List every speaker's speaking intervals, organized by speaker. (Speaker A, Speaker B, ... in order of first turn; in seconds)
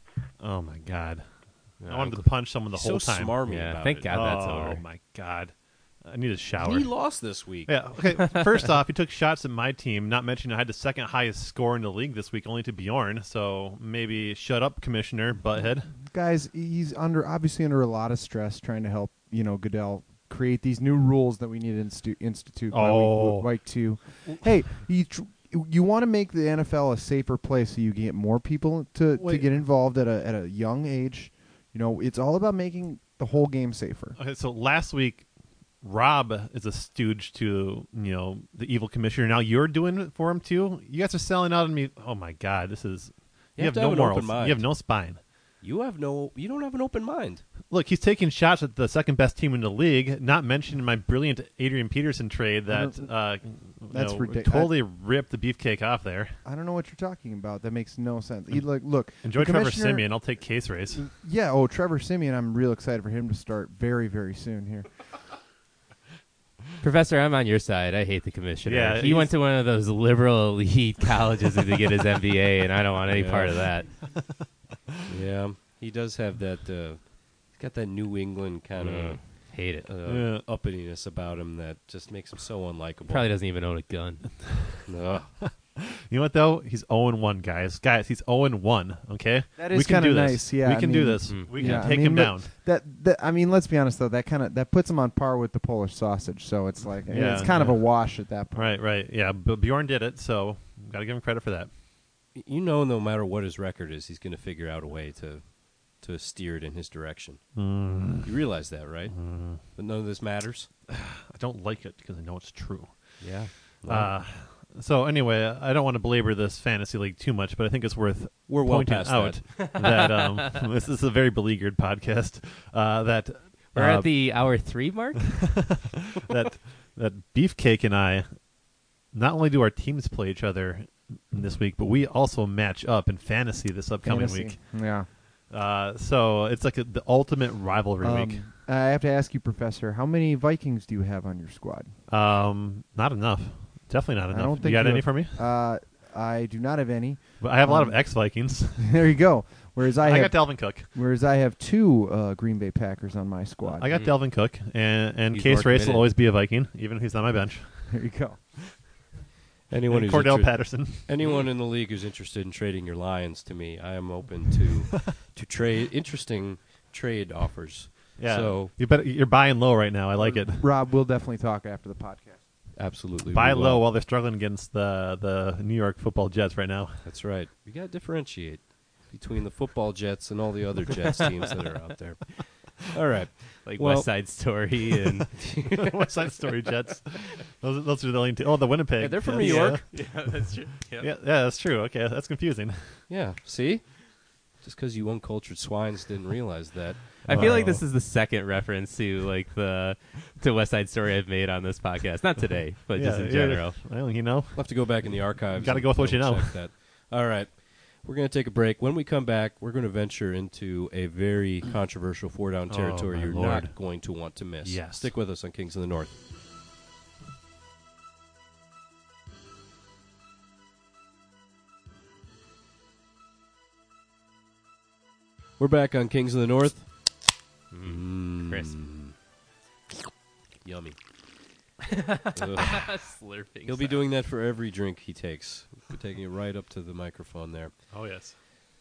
Speaker A: 0.4-3.3, 4.1-6.9, 7.7-15.9, 22.7-23.5, 29.2-29.5, 34.2-35.3, 35.8-45.2, 47.7-56.4, 59.2-61.0, 68.7-69.3, 80.1-80.5, 85.8-92.5, 97.1-101.7, 107.6-108.3, 109.1-109.6, 110.9-113.3, 113.9-124.1, 125.4-128.4, 129.1-134.8, 135.5-138.4, 142.1-145.4, 147.4-149.0, 150.0-150.9, 153.7-157.8, 159.9-161.1, 168.2-170.7, 173.3-177.1, 185.8-189.8, 191.0-193.0, 197.2-197.8, 202.9-206.6, 212.7-213.8, 214.6-215.1, 237.9-238.4
Speaker B: 1.8-2.2, 3.5-4.8, 66.8-73.9, 78.8-79.9, 83.1-84.2, 91.3-91.8, 123.8-125.4, 155.3-156.1, 183.6-185.3, 189.3-191.1, 197.2-203.8, 227.7-228.8, 231.9-234.0
Speaker C: 2.7-4.1, 6.6-7.8, 43.6-44.6, 45.6-47.4, 73.1-73.6, 75.1-83.3, 84.9-85.3, 102.3-107.5, 108.2-110.7, 113.2-114.1, 118.5-119.6, 159.7-168.7, 172.8-173.8, 177.0-184.1, 185.4-185.9, 189.0-189.8, 193.1-193.9, 194.6-197.2, 204.6-216.1, 225.6-226.9, 227.8-229.1, 230.6-231.0, 232.4-232.9, 233.7-237.7
Speaker D: 16.0-34.2, 52.7-53.1, 53.9-54.7, 56.5-60.1, 60.9-64.9, 89.6-98.8, 134.0-135.1, 138.0-141.9, 144.3-153.9, 157.9-158.4, 170.2-172.4